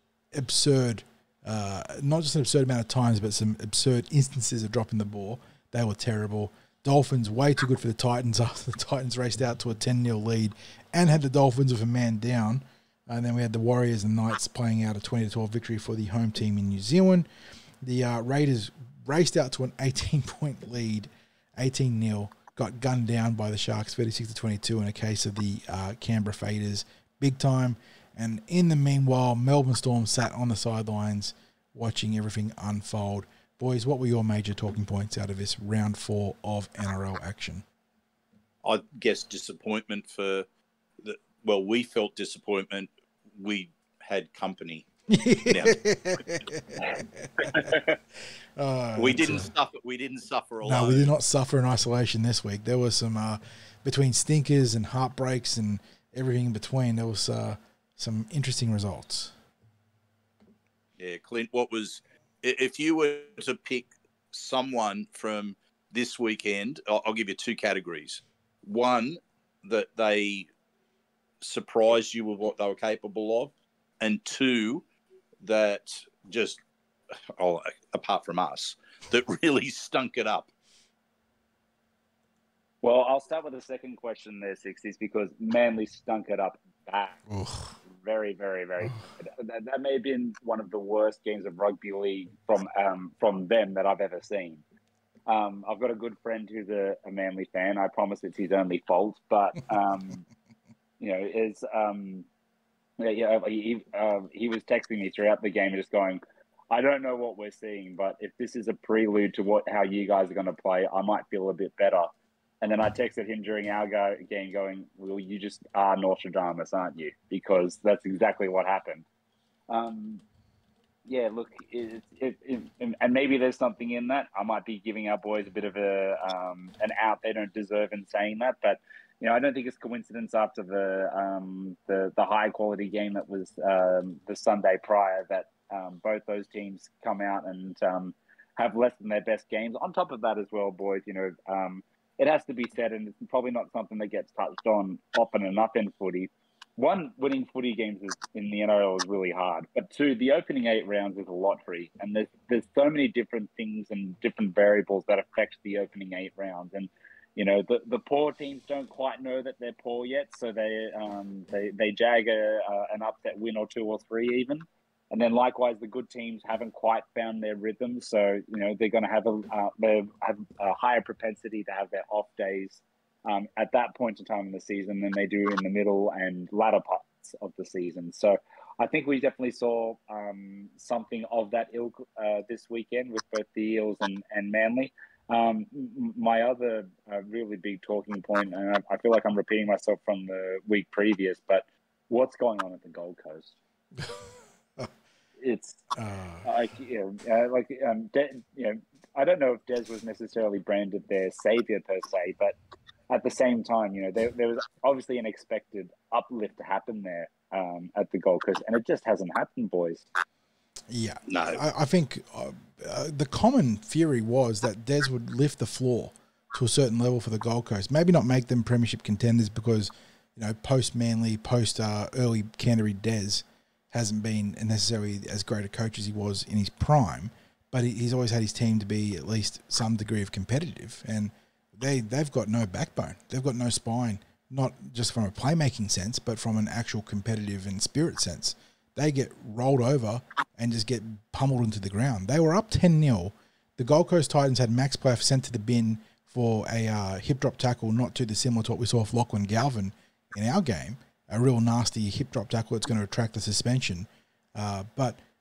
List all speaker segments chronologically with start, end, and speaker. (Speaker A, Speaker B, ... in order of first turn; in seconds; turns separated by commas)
Speaker A: 0.3-17.2, Speaker A: 17.8-37.6, Speaker B: 38.6-40.5, Speaker B: 41.0-44.9, Speaker A: 45.1-47.7, Speaker B: 45.5-46.2, Speaker A: 48.5-49.5, Speaker B: 49.0-51.1, Speaker A: 50.6-59.3, Speaker B: 61.0-70.5, Speaker B: 71.4-74.8, Speaker B: 75.4-76.6, Speaker B: 77.3-80.5, Speaker C: 82.8-87.2, Speaker A: 87.3-87.7, Speaker C: 87.9-94.6, Speaker C: 95.3-100.2, Speaker C: 101.0-102.3, Speaker C: 103.0-119.0, Speaker C: 119.7-120.2, Speaker C: 121.0-193.6, Speaker A: 194.0-194.3, Speaker C: 195.4-195.8, Speaker A: 195.9-196.5, Speaker C: 196.4-202.6, Speaker C: 203.1-210.0, Speaker A: 210.9-255.2, Speaker B: 211.3-211.6